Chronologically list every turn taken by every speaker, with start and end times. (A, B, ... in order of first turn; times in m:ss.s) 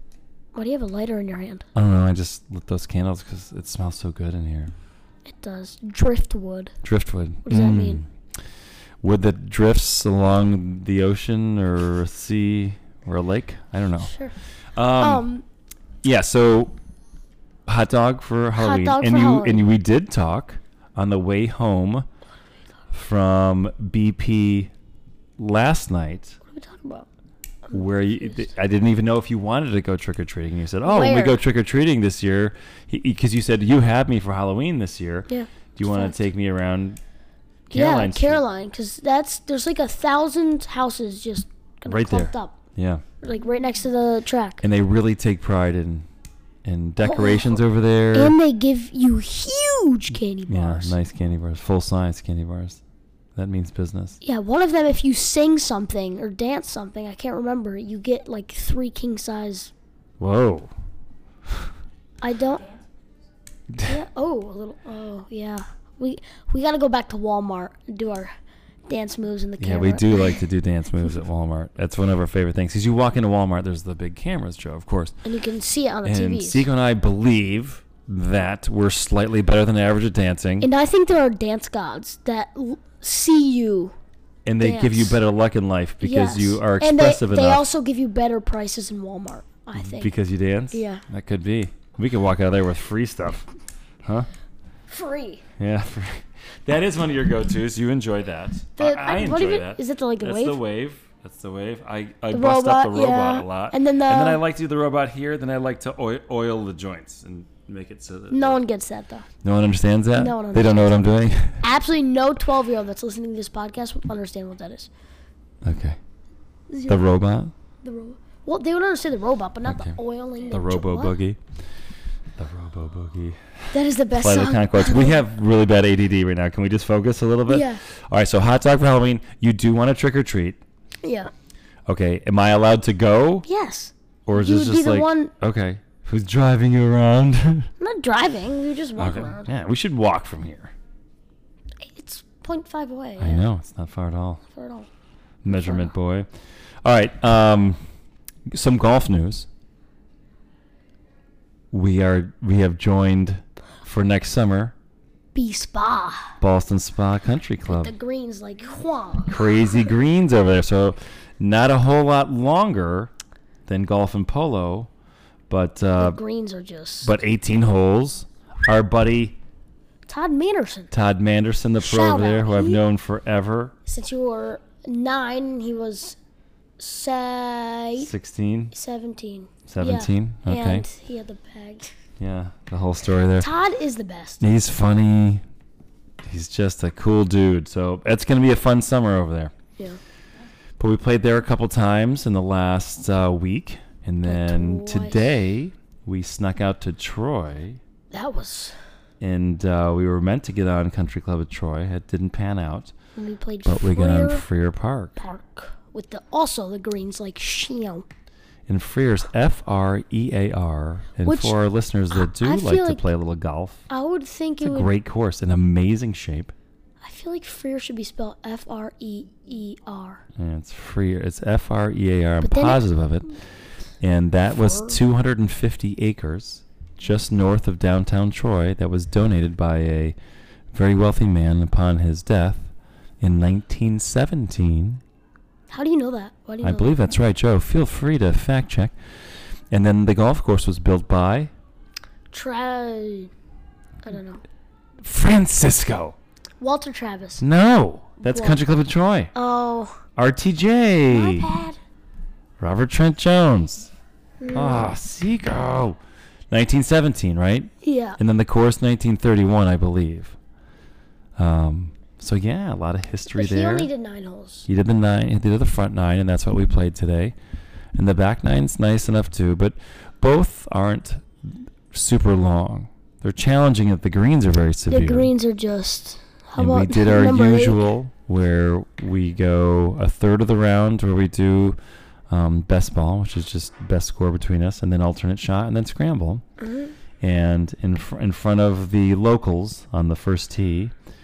0:00.5-0:01.6 A
0:01.7-0:04.7 B
0:05.2-0:06.7 A
0:06.8-0:08.1 B
0:07.4-0:08.0 A
0:09.0-0:14.1 B
0:14.0-0:14.3 A
0:14.7-0:15.2 B
0:15.0-0:15.4 A
0:16.0-0:16.7 B
0:17.6-0:22.0 B
0:18.6-0:19.6 A
0:22.9-0:24.7 B
0:25.4-0:26.4 B
0:26.5-0:27.1 A
0:27.7-0:28.5 A
0:27.7-0:37.0 B
0:30.8-0:31.4 A
0:35.3-0:36.1 A
0:37.7-0:38.4 B
0:37.7-0:42.6 A
0:41.9-0:43.0 B
0:43.2-0:44.6 A
0:44.6-0:46.1 B
0:46.6-0:48.3 B
0:47.0-0:47.6 A
0:48.1-0:51.0 A
0:50.5-0:52.8 B
0:53.3-0:54.2 B
0:54.2-0:59.7 A
1:00.2-1:00.7 B
1:02.2-1:02.6 A
1:03.7-1:04.0 B
1:03.8-1:08.3 A
1:08.9-1:10.4 A
1:09.6-1:15.1 B
1:15.2-1:16.7 A
1:16.0-1:20.7 B
1:20.6-1:23.9 A
1:24.4-1:27.6 B
1:24.6-1:25.1 A
1:26.0-1:30.1 A
1:29.8-1:33.4 B
1:30.7-1:31.0 A
1:34.9-1:35.4 A
1:35.6-1:48.6 B
1:38.8-1:40.6 A
1:42.3-1:44.4 A
1:48.3-1:49.2 A
1:49.4-1:51.6 B
1:50.1-1:51.0 A
1:51.6-1:54.9 A
1:55.6-1:56.0 B
1:56.7-1:57.1 A
1:56.9-1:57.5 B
1:57.8-2:01.1 A
1:59.6-1:59.9 B
2:00.5-2:01.4 B
2:02.4-2:03.6 B
2:03.7-2:05.2 A
2:04.2-2:10.6 B
2:07.5-2:07.8 A
2:11.0-2:11.3 A
2:11.9-2:13.4 B
2:13.5-2:15.3 A
2:14.2-2:17.7 B
2:17.8-2:19.5 A
2:19.0-2:20.7 B
2:21.9-2:23.4 A
2:23.2-2:24.4 B
2:24.5-2:24.9 A
2:25.4-2:26.3 B
2:25.5-2:25.9 A
2:26.8-2:27.8 B
2:28.5-2:29.5 B
2:31.7-2:34.7 B
2:35.3-2:36.3 A
2:36.4-2:37.9 B
2:37.7-2:39.4 A
2:39.3-2:43.1 B
2:43.6-2:44.9 B
2:45.5-2:46.2 B
2:46.0-2:47.1 A
2:47.0-2:49.4 B
2:50.1-2:50.9 A
2:50.9-2:53.7 B
2:51.8-2:52.8 A
2:53.8-2:56.2 A
2:56.8-2:58.1 A
2:58.0-2:58.7 B
2:58.7-3:01.9 A
2:59.7-3:00.8 B
3:02.2-3:03.5 B
3:03.4-3:04.4 A
3:04.4-3:05.4 B
3:06.2-3:09.5 B
3:10.8-3:17.8 B
3:14.2-3:15.3 A
3:18.1-3:18.8 A
3:19.2-3:22.9 B
3:23.2-3:24.4 A
3:23.6-3:25.2 B
3:25.2-3:28.0 A
3:28.7-3:33.9 B
3:31.2-3:31.6 A
3:32.1-3:33.0 A
3:33.9-3:34.9 A
3:34.6-3:36.5 B
3:37.0-3:40.2 A
3:40.4-3:43.4 B
3:42.4-3:42.8 A
3:44.0-3:50.2 B
3:44.6-3:45.0 A
3:50.7-3:55.0 B
3:55.7-3:57.0 A
3:56.6-3:58.9 B
3:59.7-4:01.5 B
4:02.3-4:03.3 A
4:04.0-4:04.4 A
4:05.0-4:06.2 B
4:06.6-4:07.4 A
4:07.4-4:09.3 B
4:08.2-4:08.6 A
4:09.3-4:10.0 A
4:10.2-4:11.5 B
4:11.1-4:11.8 A
4:12.6-4:13.9 B
4:14.4-4:14.9 A
4:14.5-4:16.0 B
4:16.5-4:20.4 B
4:17.8-4:18.2 A
4:21.4-4:23.9 B
4:23.3-4:24.7 A
4:24.7-4:27.3 B
4:27.9-4:35.3 B
4:34.9-4:37.8 A
4:36.6-4:41.8 B
4:42.3-4:46.4 B
4:46.6-4:46.9 A
4:47.2-4:50.9 B